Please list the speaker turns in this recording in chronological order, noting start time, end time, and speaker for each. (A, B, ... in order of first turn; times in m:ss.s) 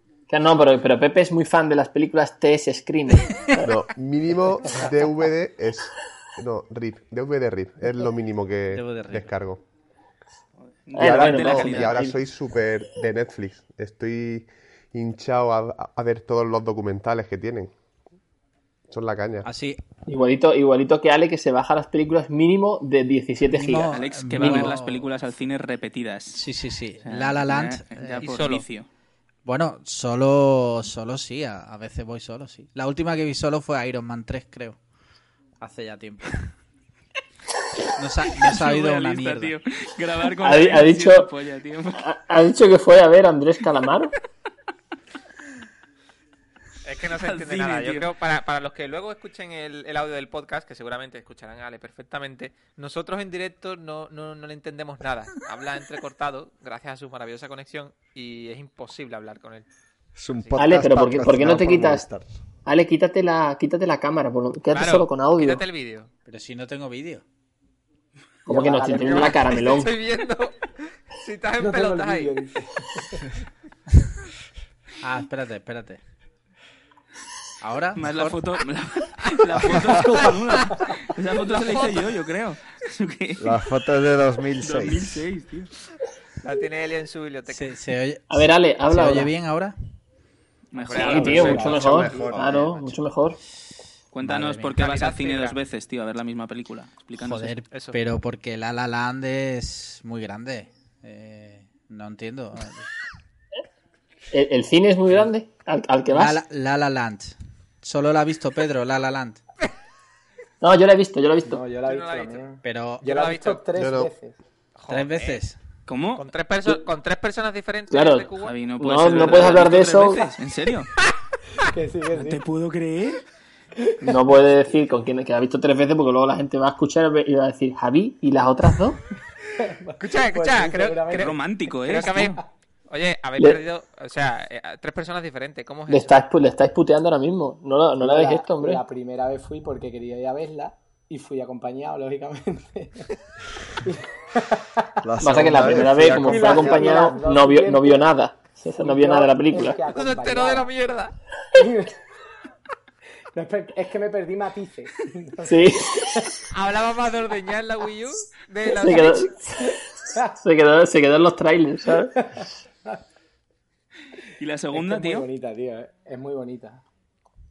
0:00.3-0:03.5 A
0:03.6-0:09.6 B
0:08.7-0:09.3 C
0:10.8-0:12.1 D
0:11.0-0:12.2 A
0:11.0-0:17.7 B
0:18.9-0:19.5 B
0:19.4-0:19.8 C
0:20.1-0:24.7 A
0:23.4-0:25.0 C
0:23.9-0:26.4 D
0:26.3-0:28.3 C
0:27.0-0:28.9 D
0:28.2-0:28.6 E
0:29.4-0:34.8 C
0:35.6-0:36.5 C
0:38.0-0:39.5 C
0:38.4-0:42.0 D
0:40.4-0:41.3 A
0:42.0-0:44.1 A
0:46.8-0:59.6 E
0:47.2-0:48.1 D
1:00.1-1:02.3 F
1:00.6-1:02.1 A
1:02.6-1:05.6 A
1:04.7-1:06.1 E
1:06.3-1:07.2 C
1:08.4-1:09.9 A
1:08.5-1:09.6 G
1:08.7-1:12.3 E
1:11.6-1:13.3 G
1:15.0-1:16.0 C
1:17.6-1:18.4 C
1:18.0-1:23.5 D
1:21.5-1:21.8 E
1:23.4-1:25.2 F
1:24.6-1:25.7 D
1:26.4-1:27.8 E
1:27.5-1:29.8 C
1:28.3-1:29.3 A
1:30.7-1:31.7 D
1:30.8-1:31.6 C
1:30.8-1:32.9 E
1:30.9-1:33.4 A
1:31.2-1:32.7 F
1:34.1-1:37.5 D
1:34.2-1:34.8 C
1:34.8-1:35.6 E
1:37.2-1:42.9 C
1:37.7-1:38.0 E
1:44.3-1:46.4 A
1:46.1-1:49.4 C
1:50.6-1:51.6 A
1:51.4-1:54.4 G
1:51.8-1:52.4 E
1:52.6-1:53.0 C
1:53.0-1:53.6 E
1:53.7-1:54.1 B
1:54.8-1:55.4 E
1:54.9-1:55.6 C
1:55.9-1:56.2 D
1:56.2-1:58.5 E
1:57.9-2:00.2 A
1:58.4-2:00.9 D
2:01.7-2:02.4 G
2:02.1-2:03.2 D
2:04.0-2:09.0 A
2:09.6-2:11.4 G
2:10.0-2:16.2 E
2:11.2-2:12.4 D
2:15.9-2:18.8 A
2:18.0-2:23.1 G
2:23.8-2:28.1 G
2:25.0-2:27.0 F
2:25.2-2:29.8 A
2:28.8-2:30.7 G
2:29.9-2:31.1 E
2:31.5-2:32.0 G
2:33.3-2:36.4 G
2:35.4-2:36.2 A
2:36.5-2:39.3 E
2:38.7-2:39.8 A
2:40.4-2:42.1 A
2:42.2-2:43.0 G
2:44.4-2:45.3 D
2:44.7-2:46.8 G